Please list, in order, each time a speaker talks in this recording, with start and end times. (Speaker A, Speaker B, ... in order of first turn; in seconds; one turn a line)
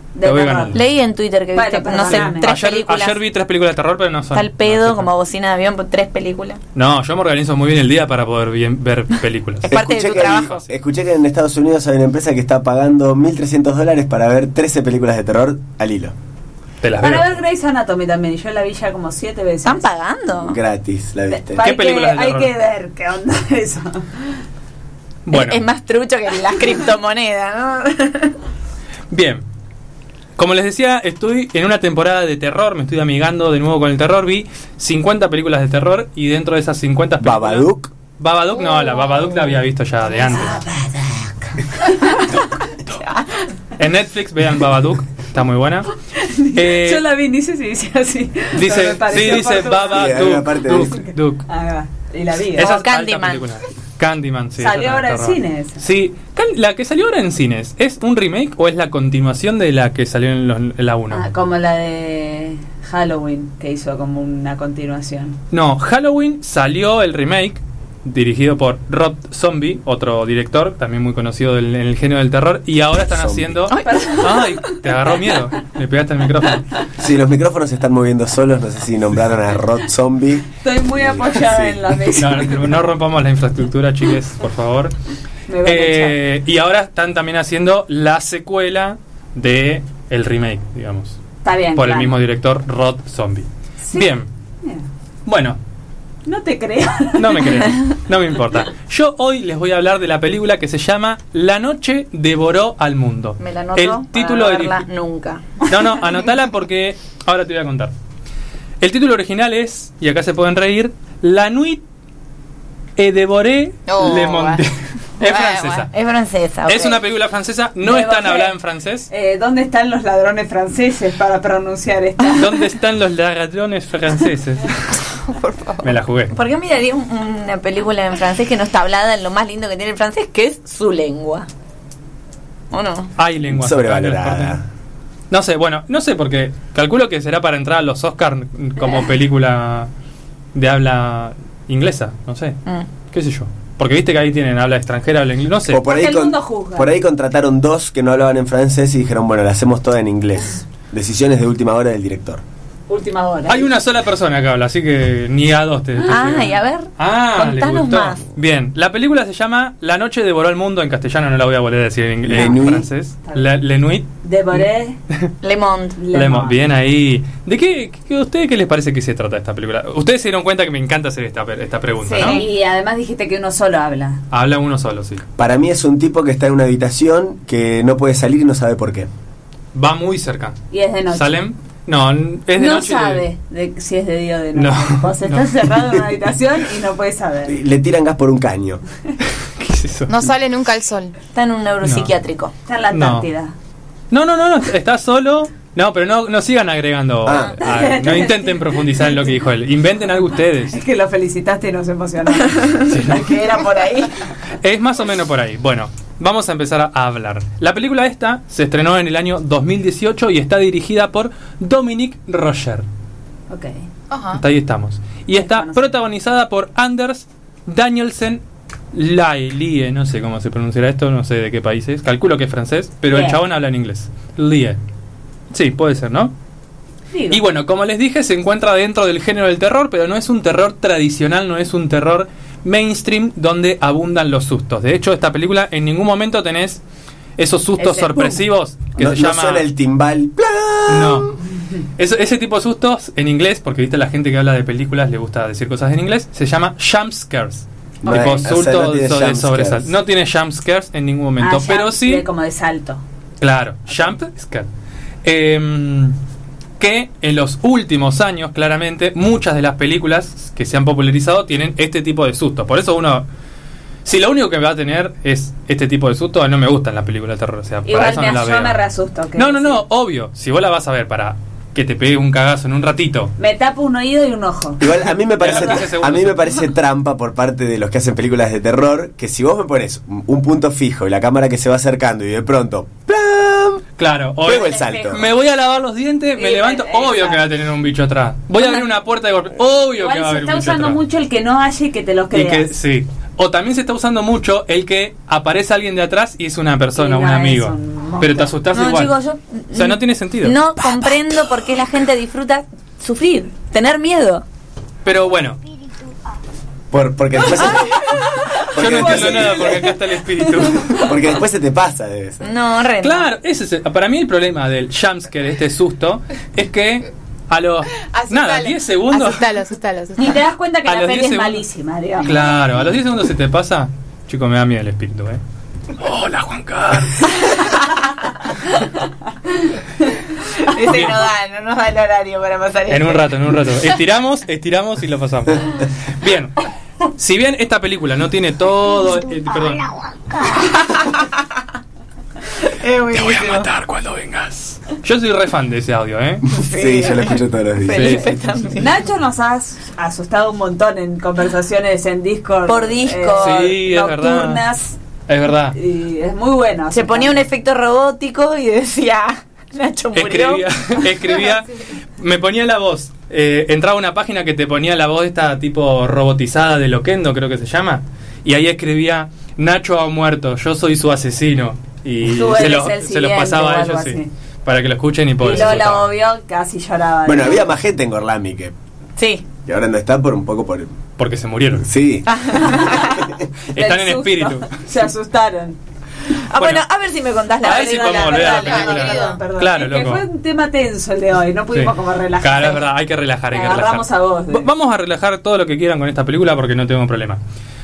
Speaker A: 0.1-0.8
Speaker B: 0.2-0.8
Speaker C: 0.7-3.2
Speaker A: 1.5-2.5
Speaker B: 2.1-5.1
Speaker C: 4.3-6.6
Speaker B: 6.7-10.7
Speaker C: 9.6-10.6
Speaker D: 9.7-16.1
Speaker B: 16.8-17.4
Speaker A: 17.0-19.8
Speaker C: 19.6-20.6
Speaker D: 20.4-21.6
Speaker A: 21.3-24.2
Speaker B: 21.6-22.5
Speaker B: 25.2-25.6
Speaker C: 25.3-28.3
Speaker B: 29.1-29.4
Speaker B: 30.4-40.6
Speaker D: 37.2-37.9
Speaker A: 39.4-41.3
Speaker B: 42.3-43.0
Speaker B: 43.8-45.9
Speaker A: 46.1-50.1
Speaker B: 46.5-47.0
Speaker B: 48.5-51.4
Speaker D: 49.8-50.9
Speaker A: 50.8-52.7
Speaker B: 52.6-61.3
Speaker C: 52.6-53.4
Speaker A: 54.6-55.8
Speaker A: 61.1-65.4
Speaker B: 65.5-76.6
Speaker D: 73.1-73.7
Speaker C: 73.7-74.4
Speaker A: 73.8-74.7
Speaker D: 77.0-81.8
Speaker A: 80.6-82.5
Speaker B: 82.2-84.9
Speaker A: 85.5-86.2
Speaker B: 85.6-91.2
Speaker A: 91.4-92.1
Speaker B: 91.8-94.2
Speaker A: 93.8-94.9
Speaker B: 95.2-95.6
Speaker A: 96.2-97.7
Speaker B: 97.2-104.8
Speaker C: 103.4-105.5
Speaker B: 105.7-107.9
Speaker B: 108.8-111.8
Speaker B: 113.0-115.9
Speaker E: 113.9-114.6
Speaker E: 115.2-115.9
Speaker C: 115.9-117.0
Speaker B: 116.7-119.1
Speaker A: 117.8-118.5
Speaker A: 119.1-122.6
Speaker B: 122.4-124.8
Speaker E: 125.2-125.9
Speaker B: 125.8-126.3
Speaker C: 126.3-131.5
Speaker C: 132.7-133.1
Speaker B: 133.2-134.6
Speaker D: 133.5-134.6
Speaker B: 135.3-139.9
Speaker B: 140.5-142.6
Speaker B: 143.1-145.8
Speaker D: 145.7-152.4
Speaker A: 145.8-146.9
Speaker A: 152.9-153.7
Speaker B: 153.5-165.3
Speaker C: 156.1-158.2
Speaker D: 162.2-162.9
Speaker A: 162.3-163.5
Speaker A: 164.2-165.0
Speaker C: 165.4-166.0
Speaker A: 166.0-166.6
Speaker B: 166.1-172.4
Speaker C: 172.1-172.4
Speaker A: 172.1-174.2
Speaker B: 174.3-175.2
Speaker D: 175.4-179.1
Speaker B: 179.7-180.6
Speaker A: 180.7-181.4
Speaker B: 181.1-183.2
Speaker A: 182.6-187.5
Speaker B: 184.6-185.5
Speaker D: 187.4-188.8
Speaker B: 189.4-190.1
Speaker E: 190.1-191.1
Speaker C: 191.3-192.5
Speaker B: 191.8-192.1
Speaker A: 192.7-193.5
Speaker B: 192.9-193.3
Speaker B: 194.1-200.8
Speaker D: 197.2-197.7
Speaker A: 197.6-199.4
Speaker A: 200.7-202.9
Speaker B: 202.9-203.4
Speaker C: 203.0-204.1
Speaker B: 204.6-212.8
Speaker A: 213.5-213.8
Speaker E: 214.1-214.4
Speaker B: 214.3-218.4
Speaker A: 215.3-215.9
Speaker B: 218.9-224.8
Speaker A: 223.1-223.4
Speaker B: 225.5-226.3
Speaker A: 227.1-227.4
Speaker B: 227.3-236.8
Speaker B: 237.4-239.7
Speaker A: 237.8-238.4
Speaker D: 239.0-241.3
Speaker B: 240.9-241.4
Speaker B: 242.0-252.2
Speaker A: 248.0-248.5
Speaker D: 248.1-249.9
Speaker A: 251.4-253.0
Speaker B: 253.4-254.7
Speaker B: 255.2-256.1
Speaker B: 256.8-263.2
Speaker B: 264.0-268.8
Speaker A: 267.8-269.8
Speaker B: 269.4-273.3
Speaker A: 273.4-274.8
Speaker D: 274.8-283.8
Speaker B: 275.3-276.4
Speaker B: 284.0-291.0
Speaker D: 284.4-285.2
Speaker A: 284.5-285.1
Speaker A: 286.4-287.5
Speaker A: 289.9-292.7
Speaker B: 292.3-299.1
Speaker A: 296.9-298.6
Speaker C: 298.7-304.4
Speaker B: 299.7-300.6
Speaker B: 305.0-305.6
Speaker D: 306.9-308.1
Speaker D: 308.7-309.8
Speaker B: 308.7-311.1
Speaker A: 308.8-310.8
Speaker D: 310.9-312.4
Speaker C: 312.4-313.3
Speaker B: 313.0-319.4
Speaker E: 318.1-320.4
Speaker A: 320.2-322.3
Speaker B: 320.8-321.6
Speaker B: 322.2-325.4
Speaker B: 326.0-327.3
Speaker C: 330.6-333.3
Speaker B: 330.9-331.2
Speaker B: 332.9-336.5
Speaker B: 337.2-339.9
Speaker C: 340.8-341.3
Speaker C: 342.8-343.7
Speaker B: 343.1-346.5
Speaker D: 346.6-348.3
Speaker C: 346.6-348.9
Speaker B: 347.9-348.7
Speaker A: 348.8-355.0
Speaker C: 352.7-353.5
Speaker B: 353.4-354.6
Speaker B: 355.3-355.8
Speaker A: 355.7-357.5
Speaker C: 356.9-360.6
Speaker B: 360.1-376.1
Speaker A: 372.2-374.3
Speaker A: 375.4-377.6
Speaker D: 377.2-378.7
Speaker C: 379.2-379.4
Speaker D: 379.6-381.0
Speaker B: 381.2-381.9
Speaker D: 381.8-382.6
Speaker C: 382.3-383.2
Speaker B: 383.7-384.9
Speaker A: 383.7-385.8
Speaker C: 386.5-388.9
Speaker B: 386.6-386.8
Speaker B: 387.6-390.2
Speaker A: 387.7-392.9
Speaker E: 388.5-389.4
Speaker B: 391.7-397.4
Speaker A: 393.5-394.7